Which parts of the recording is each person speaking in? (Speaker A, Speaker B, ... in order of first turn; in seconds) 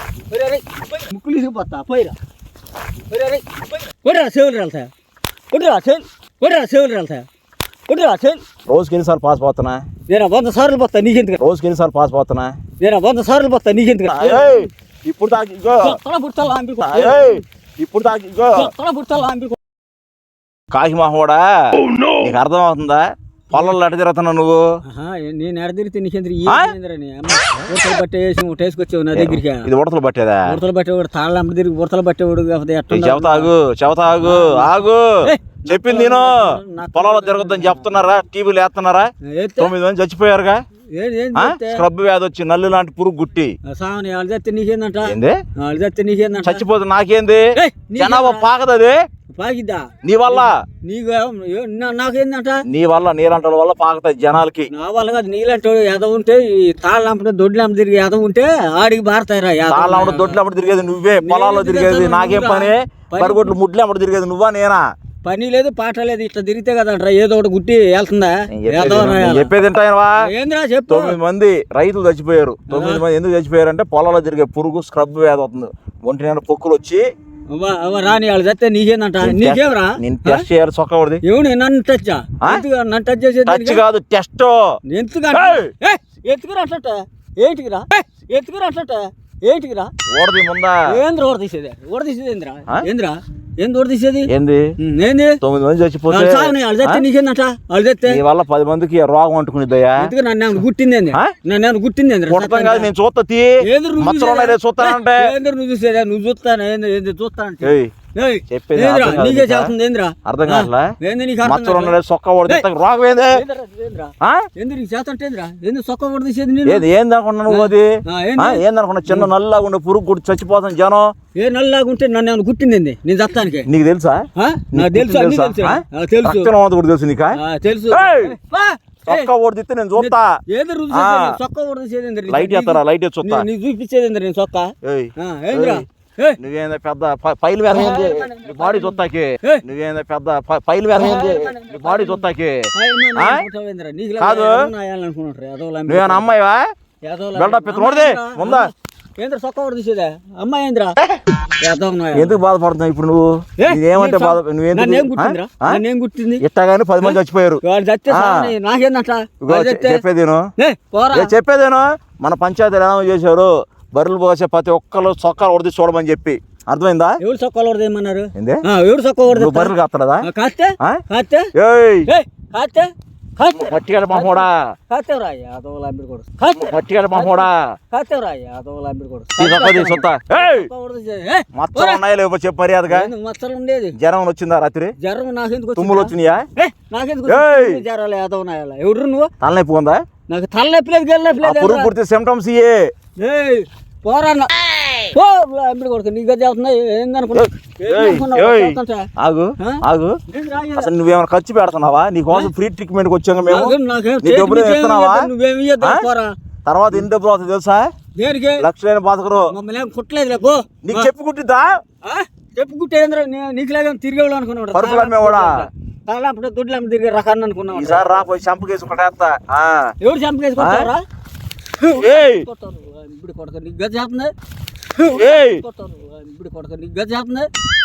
Speaker A: 0.3-2.1, 3.1-4.9, 5.5-7.2, 7.9-8.4, 10.1-11.4, 12.8-14.7, 15.8-17.4, 18.6-19.6, 24.9-29.7, 30.4-33.5, 34.2-34.7, 35.2-38.0, 39.2-39.7, 40.9-41.8, 43.7-46.6, 47.5-48.5, 49.3-52.6, 54.7-60.4, 61.2-63.5, 65.2-69.5, 70.2-71.2, 72.7-73.0, 77.5-80.4, 81.2-83.8, 84.9-89.9, 90.9-95.4, 96.1-98.2, 100.0-102.9, 103.6-112.0, 113.3-116.8, 117.5-119.3, 121.3-123.7, 124.4-126.5, 127.3-129.3, 130.0-136.4, 137.7-139.6, 140.9-146.3, 147.0-151.0, 151.6-152.4, 153.6-156.4, 157.0-160.0, 160.6-161.3, 167.2-169.7, 170.2-171.5, 172.1-182.0, 182.9-184.0, 185.0-189.3, 190.3-191.9, 193.2-200.9, 203.5-206.3, 208.2-208.7, 209.5-211.1, 212.0-218.2, 220.0-221.0, 221.8-224.3, 224.9-227.5
Speaker B: 8.7-9.9, 11.4-12.6, 14.1-16.0, 16.8-18.7, 20.7-24.8, 26.4-26.7, 29.1-30.6, 32.9-40.6, 41.3-43.5, 45.0-45.4, 46.4-49.0, 50.0-50.6, 52.7-54.7, 59.7-64.8, 68.5-70.3, 70.9-77.0, 79.2-81.2, 83.5-84.8, 85.3-85.7, 90.1-91.0, 94.3-94.7, 95.4-97.0, 98.1-100.1, 102.3-105.3, 107.6-107.9, 108.5-109.7, 110.2-113.4, 114.2-114.5, 116.6-121.1, 123.7-127.4, 127.9-128.4, 129.1-130.4, 130.9-131.4, 132.3-133.5, 134.8-135.8, 136.4-143.5, 144.2-144.7, 145.9-146.6, 147.3-148.7, 152.1-155.8, 156.4-158.5, 159.4-160.5, 161.1-167.2, 168.4-168.6, 169.3-170.2, 171.6-172.1, 173.5-174.6, 176.5-177.6, 179.4-180.7, 181.6-183.1, 184.0-184.9, 185.8-186.5, 187.3-187.8, 189.4-190.0, 191.4-192.9, 197.3-200.2, 200.8-205.3, 206.7-207.9, 208.6-209.5, 210.8-211.7, 214.7-215.7, 217.7-219.9, 220.6-220.9, 221.9-222.5, 225.1-225.6